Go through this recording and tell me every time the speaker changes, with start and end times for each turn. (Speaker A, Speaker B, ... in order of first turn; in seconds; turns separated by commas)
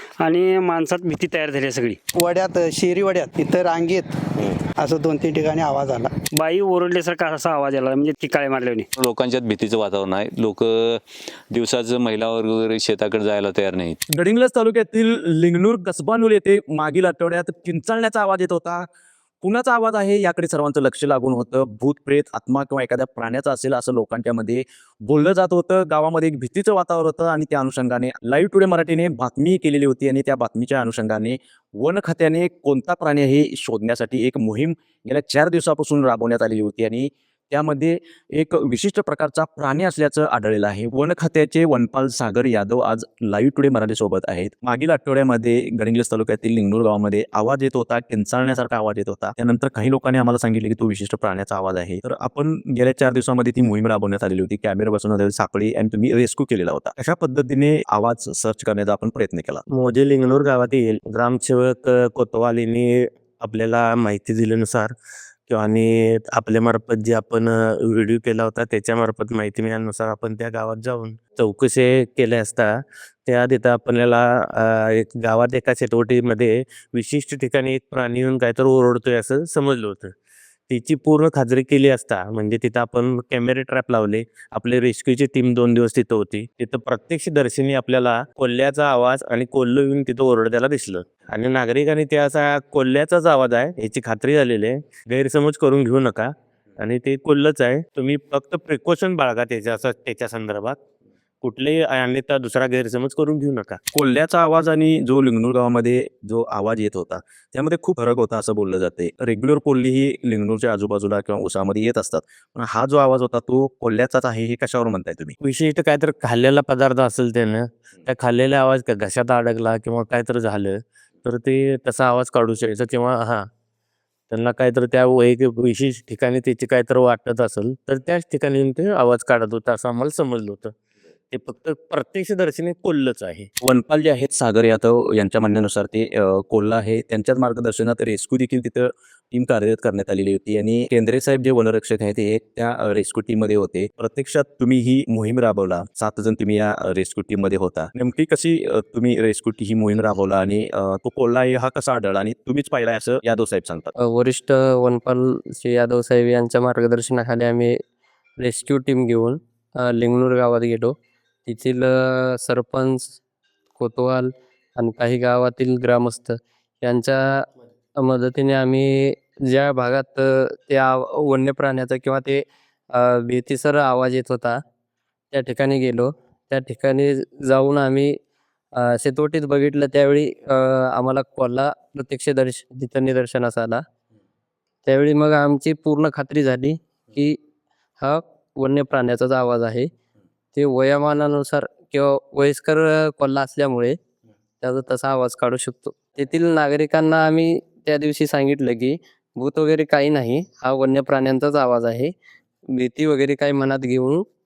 Speaker A: 0.2-2.0, Speaker B: 2.1-6.1, Speaker A: 6.4-8.8, Speaker C: 9.0-14.0, Speaker D: 14.1-18.9, Speaker D: 19.4-59.6, Speaker E: 59.7-65.0, Speaker E: 65.5-80.1, Speaker E: 80.7-100.8, Speaker E: 101.4-103.8, Speaker D: 103.9-115.4, Speaker E: 115.4-123.5, Speaker E: 124.3-130.7, Speaker E: 131.3-133.5, Speaker D: 133.6-153.9, Speaker F: 154.0-157.8, Speaker F: 158.4-163.2, Speaker F: 163.8-167.4, Speaker F: 168.0-174.6, Speaker F: 175.3-178.2, Speaker F: 178.8-183.8, Speaker F: 184.9-187.4, Speaker F: 188.0-189.9, Speaker F: 190.5-194.0, Speaker F: 194.6-202.1, Speaker F: 202.7-204.2